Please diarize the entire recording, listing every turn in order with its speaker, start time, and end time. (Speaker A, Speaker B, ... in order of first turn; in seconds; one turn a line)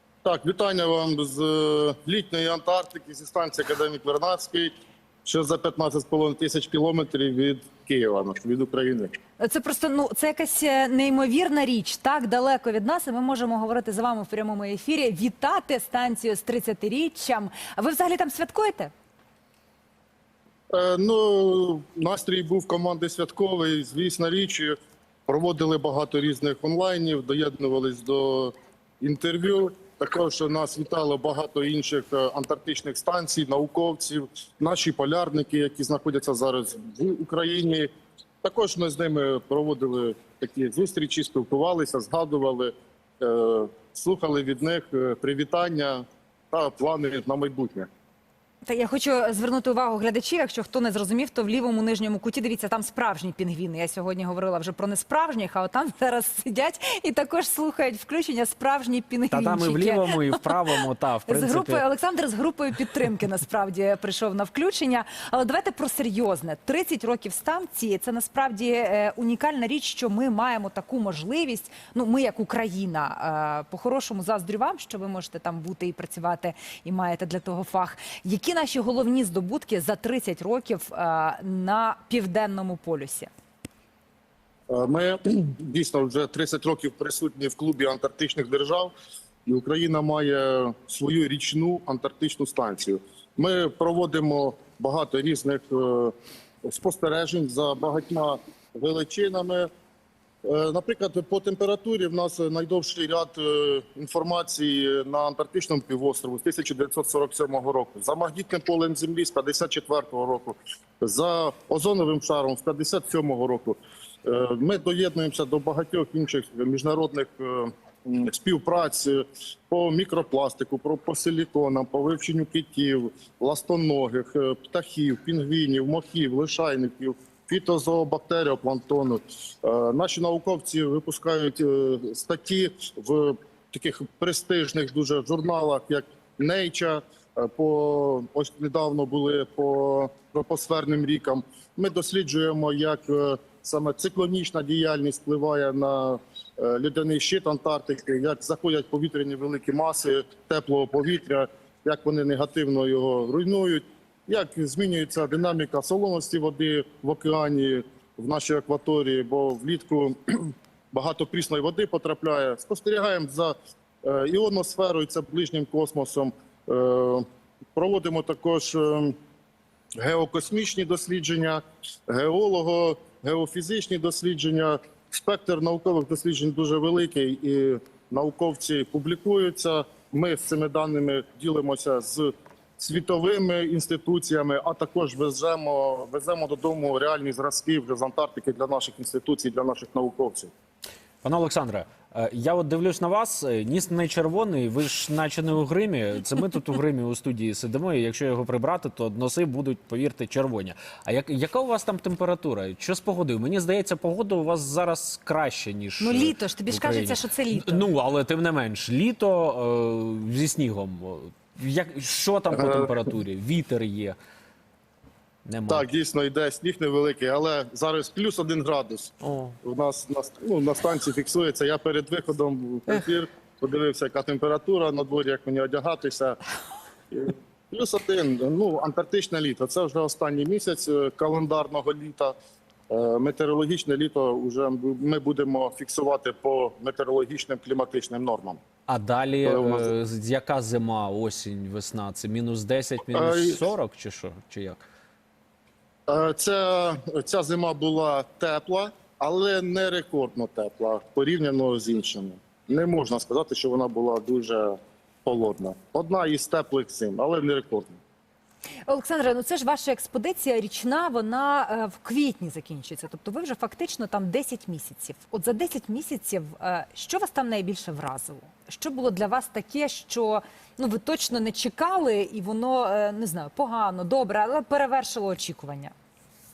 Speaker A: 0.2-4.7
Speaker A: 5.2-9.1
Speaker B: 9.4-18.9
Speaker A: 20.7-24.7
Speaker A: 25.3-37.9
Speaker A: 38.4-47.9
Speaker B: 48.6-83.3
Speaker C: 59.3-61.8
Speaker A: 84.7-88.9
Speaker A: 89.5-99.7
Speaker A: 100.4-167.2
Speaker A: 167.8-169.2
Speaker A: 170.0-190.5
Speaker C: 191.2-214.2
Speaker B: 206.0-207.9
Speaker C: 215.4-215.8
Speaker A: 215.7-226.4
Speaker A: 227.1-232.3
Speaker A: 232.9-238.6
Speaker C: 238.9-244.8
Speaker A: 239.4-239.9
Speaker A: 243.1-243.6
Speaker A: 246.1-258.0
Speaker B: 258.9-275.9